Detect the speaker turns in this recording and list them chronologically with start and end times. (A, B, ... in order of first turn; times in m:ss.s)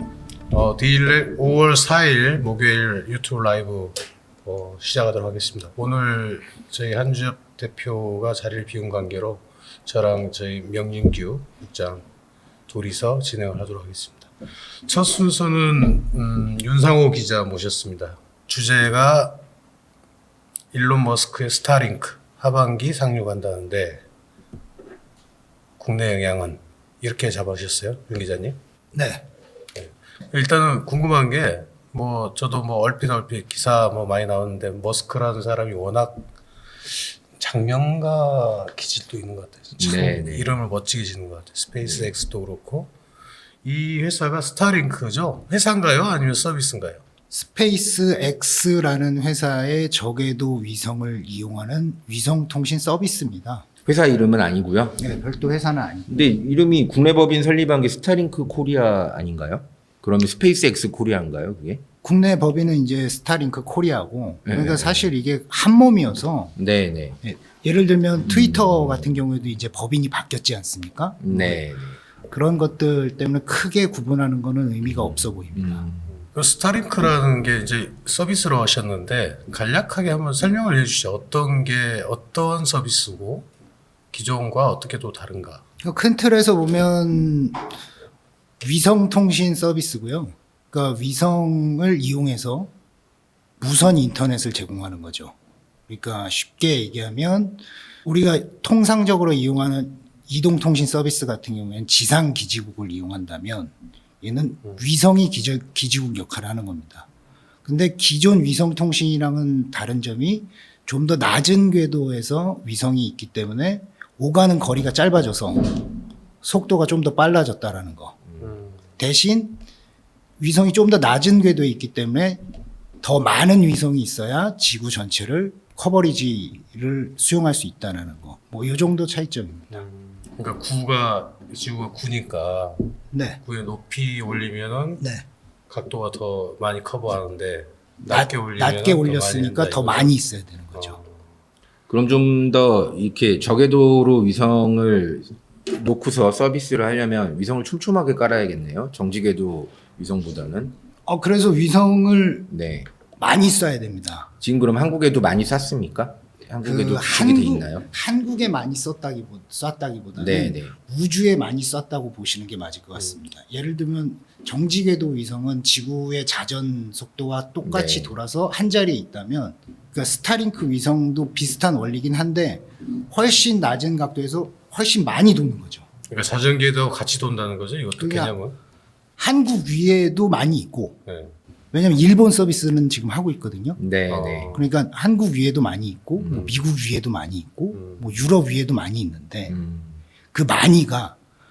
0:00.5-0:12.0 A
0:12.7-0:19.4 A
0:20.7-0:24.0 A
0:25.8-0:28.6 A
0:28.9-0:29.3 B
0:29.8-0:36.3 A
0:36.8-0:42.9 A
0:39.8-0:40.5 C
0:41.8-0:42.1 C
0:43.6-0:47.0 A
0:47.3-0:53.7 B
0:53.9-0:55.0 C
0:55.0-0:56.1 B
0:56.1-1:01.8 C
1:02.0-1:06.6 B
1:04.4-1:05.1 C
1:06.6-1:07.2 C
1:07.2-1:11.6 B
1:08.3-1:09.1 C
1:11.2-1:12.0 C
1:12.3-1:15.9 B
1:14.9-1:16.2 C
1:16.2-1:23.5 A
1:24.1-1:25.6 A
1:25.8-1:27.6 B
1:28.6-1:32.7 B
1:33.6-1:35.3 B
1:35.9-1:47.1 B
1:47.6-1:55.9 B
1:56.4-1:58.2 B
1:58.4-1:58.8 A
1:59.0-1:59.6 B
2:00.4-2:02.4 B
2:03.0-2:09.8 B
2:09.7-2:15.0 A
2:13.1-2:13.4 B
2:15.0-2:15.2 B
2:15.7-2:20.1 A
2:18.0-2:21.0 B
2:20.7-2:21.1 A
2:21.9-2:30.8 C
2:31.1-2:32.5 B
2:32.5-2:32.9 C
2:33.2-2:34.3 B
2:34.4-2:37.9 C
2:36.6-2:55.9 B
2:40.2-2:40.8 C
2:47.6-2:48.1 C
2:56.1-2:58.6 A
2:58.0-2:58.3 B
2:59.2-3:01.0 B
3:01.1-3:01.4 A
3:01.7-3:03.8 B
3:03.8-3:04.5 C
3:04.1-3:04.6 A
3:04.5-3:09.5 B
3:06.2-3:06.5 C
3:06.3-3:06.5 A
3:07.7-3:08.1 A
3:09.5-3:10.0 C
3:10.3-3:11.2 B